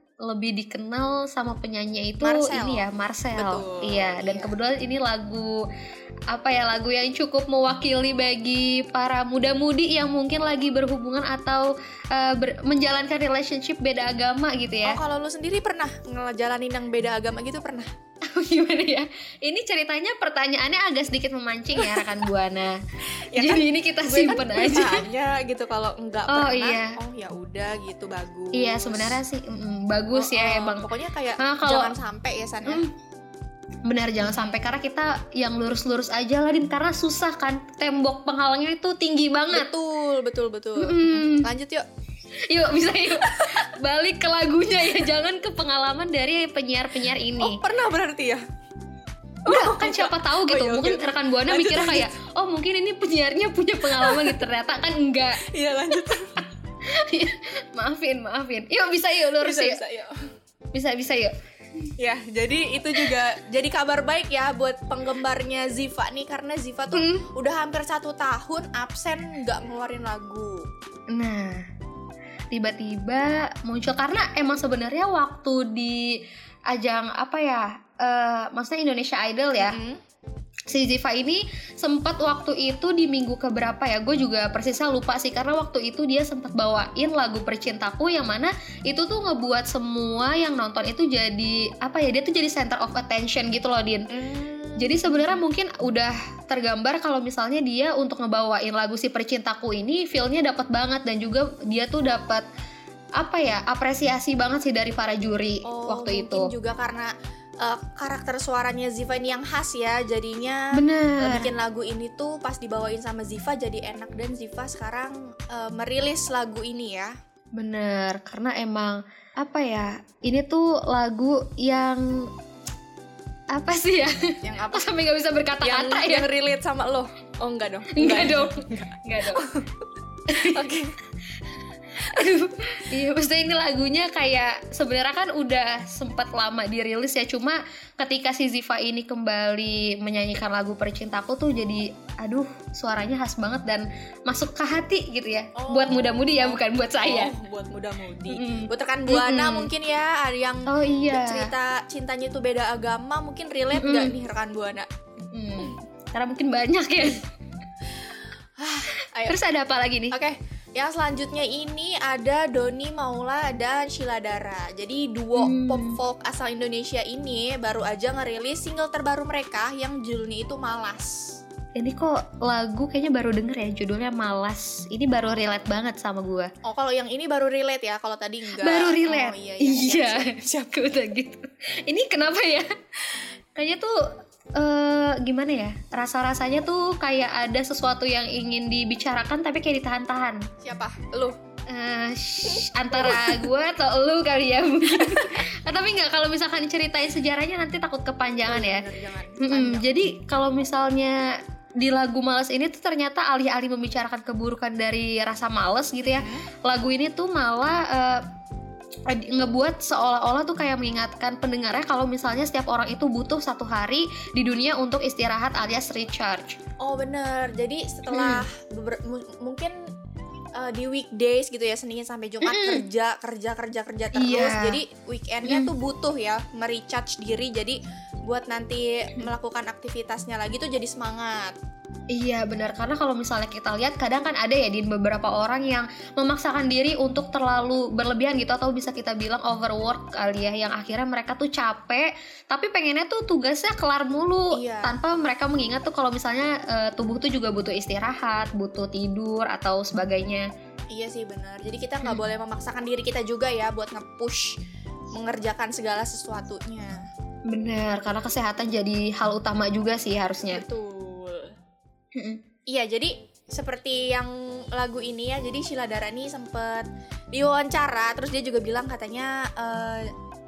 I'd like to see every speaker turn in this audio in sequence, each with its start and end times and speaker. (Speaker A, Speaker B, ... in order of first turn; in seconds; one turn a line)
Speaker A: 0.2-5.7
Speaker B: 2.2-2.9
Speaker B: 3.4-4.5
Speaker A: 6.3-15.0
Speaker B: 14.9-17.9
Speaker A: 18.3-22.8
Speaker B: 21.8-22.1
Speaker B: 23.3-29.2
Speaker A: 23.4-25.0
Speaker A: 26.3-26.9
Speaker A: 28.5-30.9
Speaker B: 30.1-32.8
Speaker A: 31.4-31.9
Speaker A: 32.7-32.9
Speaker A: 33.9-39.7
Speaker B: 34.2-34.6
Speaker B: 39.5-41.8
Speaker A: 40.8-41.5
Speaker A: 42.5-47.6
Speaker B: 47.4-48.4
Speaker B: 49.5-52.1
Speaker A: 49.5-56.5
Speaker B: 53.9-54.4
Speaker B: 55.4-56.3
Speaker A: 57.0-59.8
Speaker B: 59.4-60.1
Speaker A: 60.7-61.3
Speaker B: 62.0-70.6
Speaker A: 66.9-67.3
Speaker A: 71.1-71.6
Speaker A: 72.5-76.2
Speaker A: 76.7-79.8
Speaker B: 79.6-80.0
Speaker A: 80.7-94.0
Speaker B: 94.1-95.4
Speaker A: 94.8-102.5
Speaker A: 103.2-106.5
Speaker B: 105.7-107.1
Speaker B: 107.6-110.7
Speaker A: 110.8-111.5
Speaker B: 111.2-117.1
Speaker A: 117.6-122.3
Speaker A: 123.5-126.3
Speaker B: 124.4-124.9
Speaker B: 125.6-128.8
Speaker A: 128.0-129.5
Speaker B: 129.3-129.6
Speaker A: 130.3-130.6
Speaker B: 130.3-130.9
Speaker A: 132.1-147.3
Speaker B: 145.6-154.9
Speaker A: 148.3-149.7
Speaker A: 150.7-151.5
Speaker A: 153.7-154.2
Speaker A: 155.3-157.2
Speaker B: 158.6-159.4
Speaker A: 159.2-160.2
Speaker B: 160.1-171.3
Speaker A: 165.4-166.0
Speaker A: 171.8-176.5
Speaker B: 176.7-180.7
Speaker A: 178.6-182.7
Speaker A: 183.6-183.9
Speaker A: 184.6-190.4
Speaker B: 190.6-191.4
Speaker A: 191.7-198.9
Speaker B: 192.9-193.5
Speaker B: 198.5-199.9
Speaker A: 199.4-201.2
Speaker A: 201.8-208.2
Speaker B: 206.1-206.4
Speaker A: 209.1-216.6
Speaker B: 216.8-219.8
Speaker A: 218.1-218.4
Speaker B: 220.6-231.5
Speaker A: 222.4-222.8
Speaker A: 224.2-224.8
Speaker A: 225.5-225.7
Speaker A: 232.1-250.5
Speaker B: 244.5-245.0
Speaker B: 250.9-254.5
Speaker B: 255.1-257.0
Speaker A: 257.5-260.6
Speaker B: 260.5-261.5
Speaker A: 262.1-262.4
Speaker B: 262.7-270.1